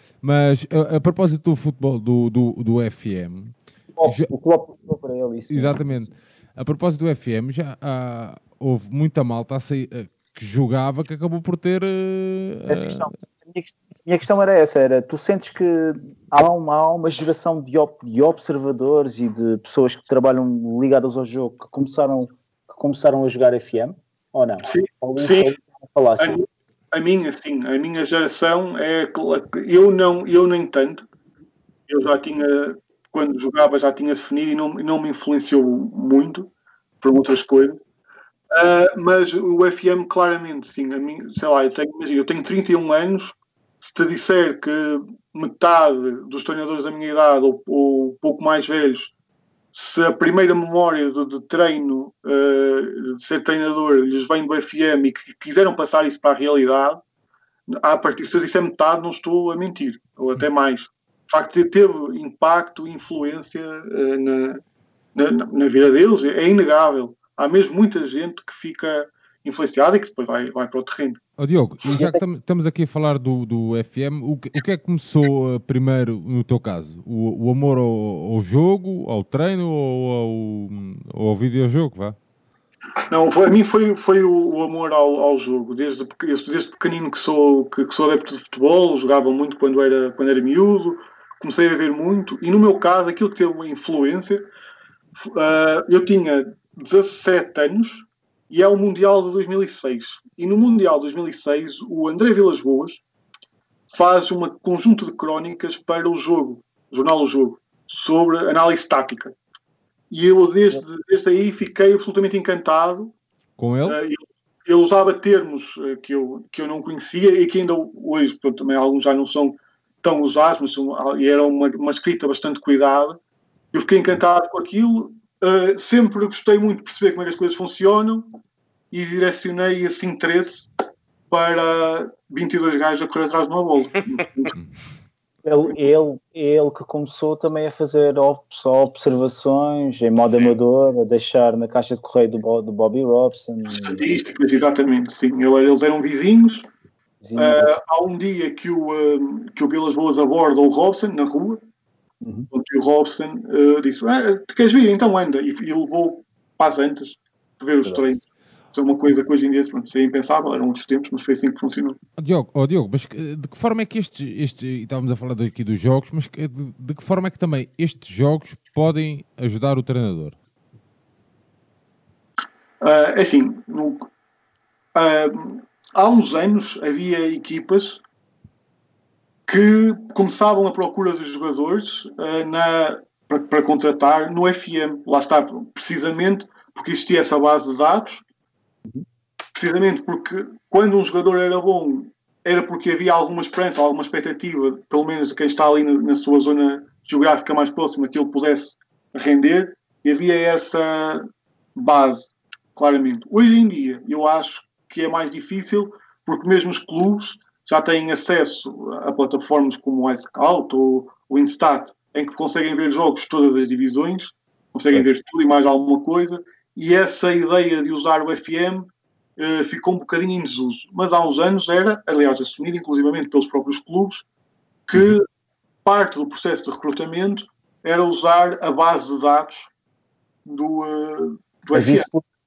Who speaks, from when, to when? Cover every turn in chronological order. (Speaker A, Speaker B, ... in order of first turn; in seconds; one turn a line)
Speaker A: 0.2-4.3
Speaker B: 4.0-6.1
Speaker A: 5.5-13.1
Speaker B: 12.7-26.4
Speaker C: 24.6-25.5
Speaker C: 26.2-31.0
Speaker C: 31.9-36.5
Speaker C: 37.0-37.8
Speaker C: 38.5-49.1
Speaker C: 49.7-57.0
Speaker C: 57.7-64.6
Speaker C: 65.1-71.2
Speaker A: 71.4-82.2
Speaker B: 72.0-72.2
Speaker C: 83.1-94.5
Speaker C: 95.2-103.0
Speaker C: 103.9-109.3
Speaker C: 110.1-113.1
Speaker A: 113.6-114.0
Speaker C: 113.8-123.2
Speaker C: 123.7-128.3
Speaker C: 128.9-130.7
Speaker C: 131.3-134.5
Speaker B: 135.4-144.0
Speaker C: 143.7-146.6
Speaker B: 147.2-147.7
Speaker C: 147.3-151.6
Speaker B: 152.2-152.5
Speaker C: 152.5-158.2
Speaker C: 158.7-162.0
Speaker A: 162.2-170.4
Speaker C: 172.8-174.1
Speaker C: 174.9-178.0
Speaker C: 179.5-188.2
Speaker C: 189.5-224.2
Speaker C: 224.9-225.3
Speaker C: 225.8-229.7
Speaker C: 230.4-232.1
Speaker B: 231.7-232.2